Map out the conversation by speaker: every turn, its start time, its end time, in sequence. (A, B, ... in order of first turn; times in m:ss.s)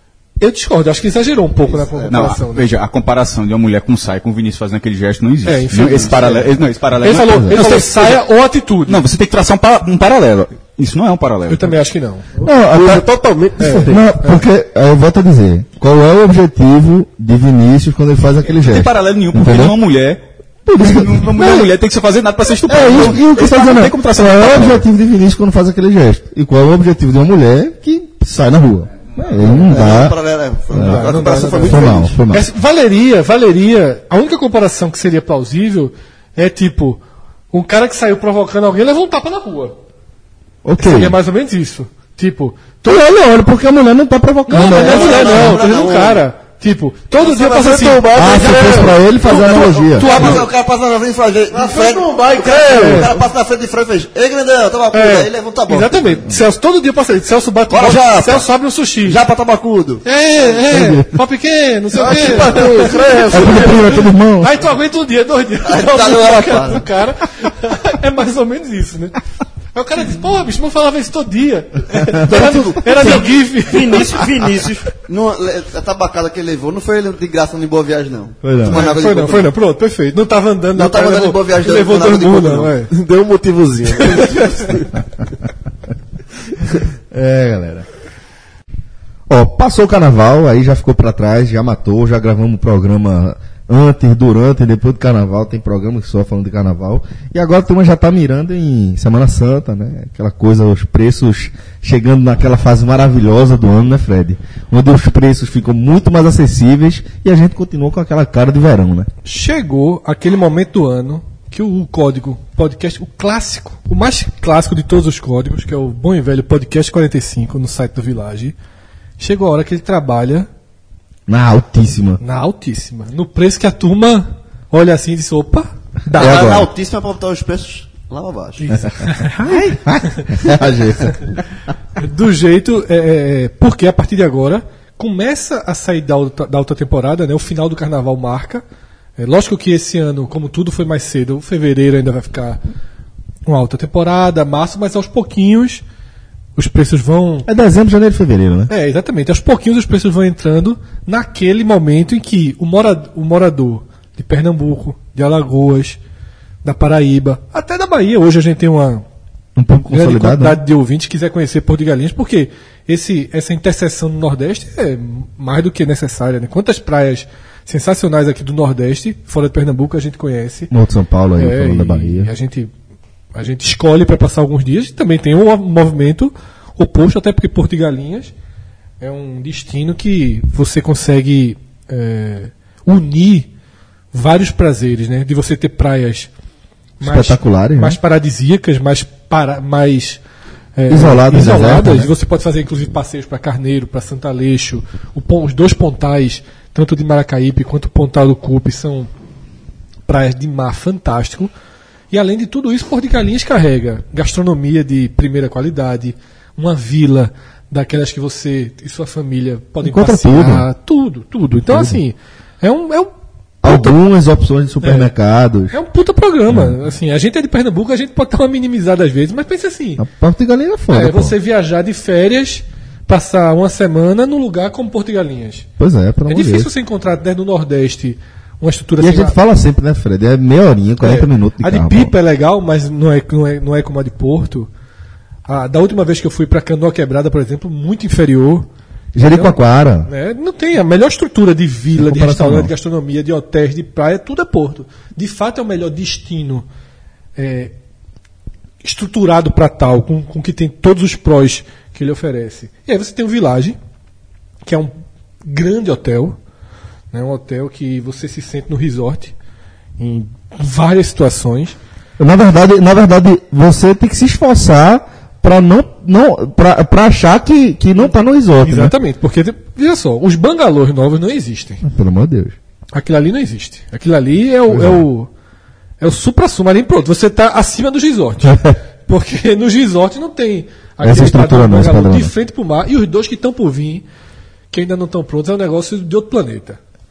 0:00.4-0:02.7 A
0:01.8-0:02.3 B
0:02.1-0:08.2 C
0:05.4-0:09.0 A
0:07.0-0:07.9 D
0:08.9-0:11.7 C
0:11.5-0:12.5 A
0:12.4-0:13.0 D
0:12.6-0:14.1 E
0:13.6-0:14.4 A
0:13.8-0:19.8 D
0:18.4-0:20.2 C
0:20.7-0:21.7 D
0:20.8-0:24.8 C
0:22.7-0:23.9 B
0:22.7-0:30.2 D
0:29.6-0:32.2 B
0:30.7-0:32.5 D
0:30.7-0:37.0 A
0:37.5-0:39.8 A
0:40.6-0:41.2 D
0:40.8-0:43.0 A
0:42.8-0:45.6 D
0:44.5-0:48.1 A
0:44.5-0:46.2 B
0:47.2-0:50.4 E
0:48.1-0:50.3 D
0:49.3-0:56.3 B
0:49.3-0:50.4 A
0:51.5-0:53.2 E
0:52.7-0:53.1 A
0:54.9-0:59.2 A
0:57.7-0:58.5 B
0:59.0-1:00.6 B
1:00.0-1:09.2 A
1:00.7-1:01.2 D
1:02.0-1:04.1 E
1:02.0-1:03.0 B
1:03.3-1:04.6 D
1:05.6-1:06.9 B
1:09.7-1:14.5 A
1:12.1-1:19.5 B
1:18.4-1:18.9 D
1:18.7-1:22.9 A
1:20.8-1:22.7 B
1:22.9-1:24.9 E
1:24.0-1:24.6 A
1:27.1-1:27.9 D
1:29.3-1:49.1 D
1:49.2-1:58.6 A
1:59.2-2:00.5 A
2:01.3-2:02.2 D
2:02.2-2:06.6 A
2:06.2-2:06.7 D
2:06.2-2:08.8 B
2:08.6-2:10.4 A
2:09.4-2:11.4 D
2:10.4-2:10.9 B
2:12.0-2:18.6 A
2:19.2-2:22.6 A
2:23.5-2:25.8 A
2:26.6-2:27.5 A
2:27.5-2:28.7 D
2:28.7-2:36.0 A
2:36.6-2:39.0 A
2:39.6-2:40.6 D
2:39.9-2:50.7 A
2:50.7-2:52.3 D
2:51.4-2:52.7 A
2:53.4-2:58.3 A
2:59.0-3:03.5 A
3:04.1-3:06.3 A
3:07.0-3:10.2 A
3:07.0-3:08.0 D
3:10.8-3:19.1 A
3:10.9-3:12.1 D
3:20.1-3:21.5 A
3:22.1-3:33.1 A
3:29.8-3:30.7 D
3:31.7-3:32.0 D
3:33.6-3:35.7 D
3:33.6-3:33.9 A
3:34.8-3:35.1 A
3:35.7-3:40.0 A
3:36.5-3:36.8 D
3:40.0-3:41.4 D
3:40.9-3:45.7 A
3:45.8-3:46.7 D
3:46.3-3:49.4 A
3:49.0-3:52.1 D
3:51.0-3:54.7 A
3:55.5-3:58.7 A
3:59.2-4:00.1 D
3:59.3-3:59.6 A
4:00.1-4:06.7 A
4:02.0-4:02.7 D
4:07.4-4:07.7 A
4:08.8-4:13.8 A
4:14.6-4:14.9 A
4:15.4-4:16.4 A
4:17.1-4:19.3 A
4:20.0-4:21.8 A
4:22.2-4:28.9 D
4:28.6-4:31.8 A
4:31.8-4:32.6 D
4:32.9-4:35.3 A
4:34.7-4:35.0 D
4:36.0-4:44.0 A
4:38.4-4:38.8 D
4:41.0-4:42.3 D
4:44.7-4:46.8 A